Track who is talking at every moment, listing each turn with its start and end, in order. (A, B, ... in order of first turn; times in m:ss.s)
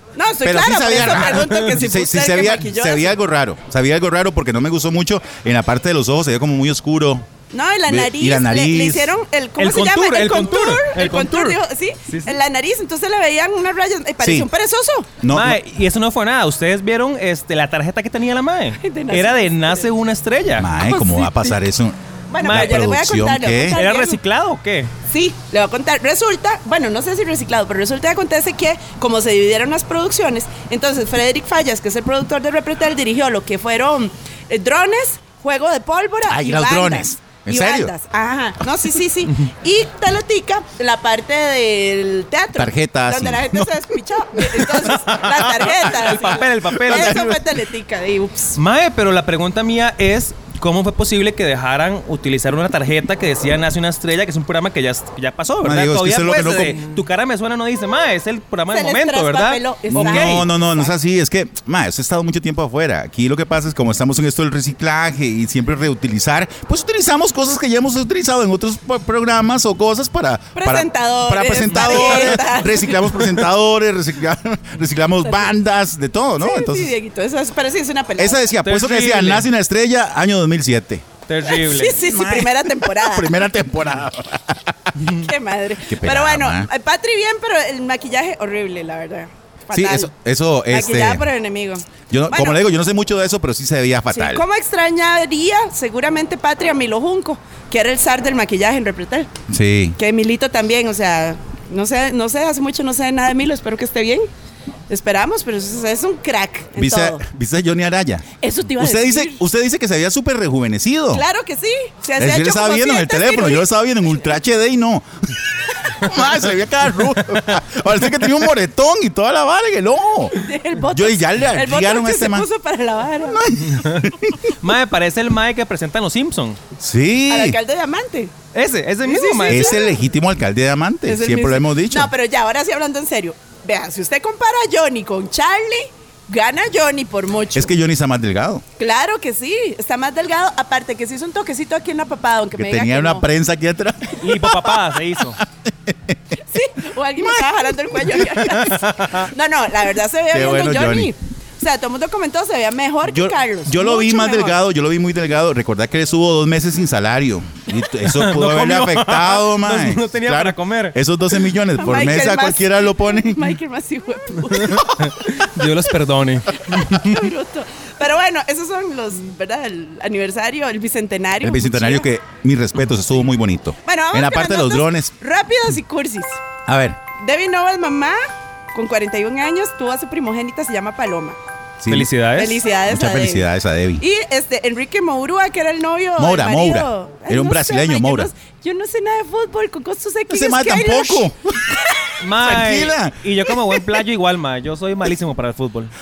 0:00.2-0:03.2 A
0:00.4-0:07.3 B
0:07.5-0:15.1 A
0:07.9-0:09.1 B
0:09.6-0:12.4 C
0:14.2-0:14.5 B
0:15.2-0:15.6 B
0:15.3-0:20.7 C
0:18.8-0:19.9 A
0:20.6-0:23.8 B
0:20.8-0:21.6 A
0:22.3-0:24.2 A
0:22.4-0:22.9 C
0:23.6-0:24.9 C
0:25.1-0:48.6 A
0:36.3-0:37.9 B
0:42.6-0:46.1 B
0:45.3-0:47.2 C
0:46.7-0:47.4 B
0:48.6-1:00.5 C
0:55.6-0:56.8 B
0:58.7-1:00.9 A
0:59.9-1:16.9 B
1:10.6-1:13.5 A
1:15.2-1:15.5 A
1:16.4-1:18.5 A
1:18.2-1:21.1 B
1:18.6-1:19.5 C
1:21.3-1:22.0 C
1:21.4-1:23.5 A
1:22.0-1:25.1 B
1:25.1-1:30.1 A
1:25.8-1:26.7 B
1:29.7-1:31.2 B
1:30.7-1:32.6 A
1:32.1-1:34.4 B
1:34.1-1:39.3 A
1:39.5-1:40.0 B
1:40.0-1:44.3 A
1:44.9-1:47.2 A
1:46.8-1:48.3 B
1:48.4-1:49.4 A
1:48.8-1:51.2 B
1:51.1-1:53.7 A
1:52.2-2:00.4 B
2:00.3-2:03.4 A
2:00.9-2:02.5 B
2:03.2-2:04.5 B
2:03.8-2:04.1 C
2:04.6-2:06.6 C
2:06.8-2:07.6 B
2:07.3-2:08.3 A
2:08.5-2:09.8 C
2:09.0-2:10.0 A
2:09.5-2:12.1 B
2:11.1-2:17.7 A
2:17.6-2:18.6 B
2:18.8-2:23.3 A
2:22.6-2:26.2 B
2:24.2-2:25.4 C
2:26.5-2:34.6 A
2:27.2-2:28.1 B
2:28.5-2:29.3 C
2:30.3-2:31.1 B
2:33.0-2:43.5 B
2:38.0-2:41.0 C
2:41.8-2:45.5 A
2:44.5-2:47.3 C
2:46.5-2:52.1 A
2:51.4-2:55.1 B
2:53.8-2:56.4 A
2:56.7-2:57.0 B
2:57.2-2:58.2 A
2:58.7-3:01.4 A
3:01.8-3:02.1 B
3:01.9-3:02.6 C
3:02.4-3:03.5 A
3:02.9-3:04.0 B
3:04.0-3:12.2 A
3:06.2-3:08.3 B
3:10.3-3:11.8 B
3:12.2-3:15.9 C
3:12.4-3:13.2 B